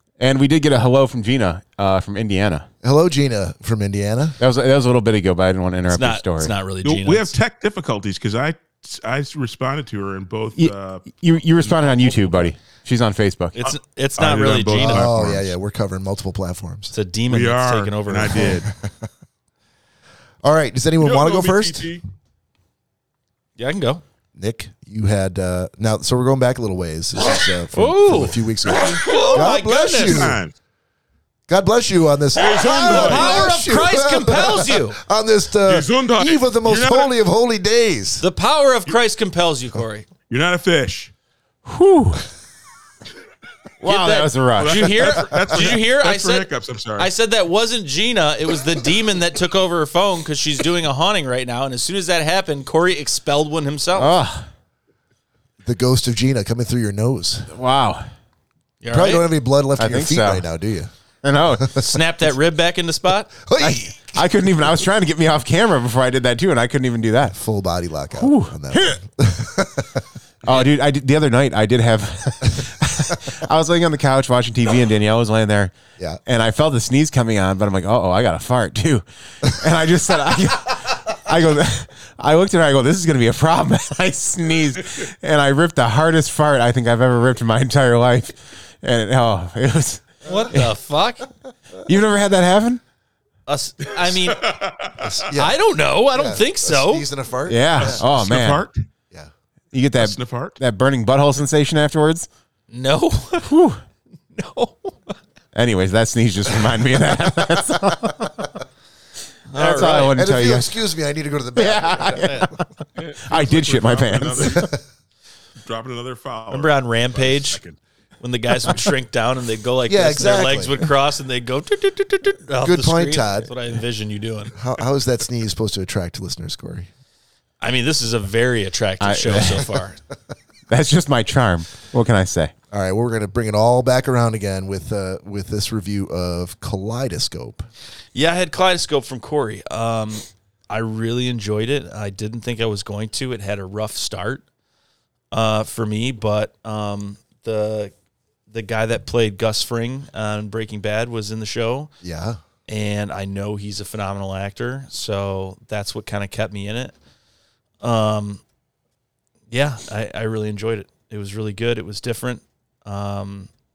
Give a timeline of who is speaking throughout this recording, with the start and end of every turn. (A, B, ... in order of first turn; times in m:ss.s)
0:00.2-0:02.7 A
0:02.8-0:04.4 B
0:04.4-0:06.5 A
0:05.9-0:07.3 C
0:06.8-0:11.1 D
0:10.6-0:13.6 A
0:11.6-0:12.4 D
0:13.5-0:15.1 C
0:13.6-0:15.5 D
0:14.8-0:16.9 B
0:16.9-0:18.6 C
0:17.3-0:18.7 D
0:18.4-0:19.1 B
0:20.4-0:21.9 B
0:21.0-0:22.0 D
0:23.6-0:24.0 C
0:24.4-0:30.4 B
0:27.7-0:30.3 C
0:28.7-0:29.4 D
0:30.0-0:30.5 D
0:31.5-0:38.2 B
0:32.3-0:33.6 D
0:32.5-0:35.0 C
0:35.6-0:37.1 D
0:38.2-0:40.1 C
0:40.3-0:41.1 D
0:41.6-0:42.2 A
0:43.8-0:45.1 A
0:43.8-0:54.1 C
0:44.6-0:47.1 D
0:53.9-0:54.5 A
0:55.6-0:57.5 B
0:57.5-0:58.1 A
0:58.8-0:59.2 C
0:58.9-1:00.9 B
0:59.8-1:00.4 A
1:01.2-1:01.8 A
1:01.5-1:01.8 B
1:01.7-1:03.3 C
1:03.4-1:04.2 B
1:03.6-1:07.4 A
1:07.3-1:10.0 B
1:08.1-1:09.0 A
1:10.4-1:15.7 A
1:16.2-1:30.7 A
1:30.2-1:31.3 C
1:31.8-1:32.8 A
1:33.5-1:34.4 C
1:33.9-1:35.2 D
1:35.0-1:35.5 B
1:35.3-1:37.1 C
1:36.1-1:38.0 B
1:37.5-1:38.6 A
1:37.8-1:38.8 D
1:39.7-1:42.3 A
1:40.0-1:40.5 D
1:42.7-1:43.5 C
1:43.4-1:43.8 A
1:44.3-1:45.1 C
1:45.5-1:48.5 A
1:49.5-1:50.2 C
1:49.6-1:50.8 A
1:49.8-1:52.5 B
1:51.5-1:52.6 A
1:52.1-1:52.5 C
1:53.0-1:54.8 D
1:53.2-1:54.7 A
1:54.4-1:54.8 B
1:55.6-1:57.8 D
1:56.5-1:57.6 C
1:58.2-2:04.5 C
1:59.9-2:00.7 B
2:02.6-2:03.5 B
2:04.5-2:06.9 B
2:07.6-2:10.0 C
2:09.0-2:09.7 A
2:10.7-2:12.5 A
2:12.7-2:17.7 B
2:18.1-2:24.4 C
2:25.3-2:27.9 C
2:28.5-2:31.9 C
2:32.0-2:32.4 B
2:32.7-2:36.9 C
2:37.8-2:38.4 C
2:39.5-2:43.5 C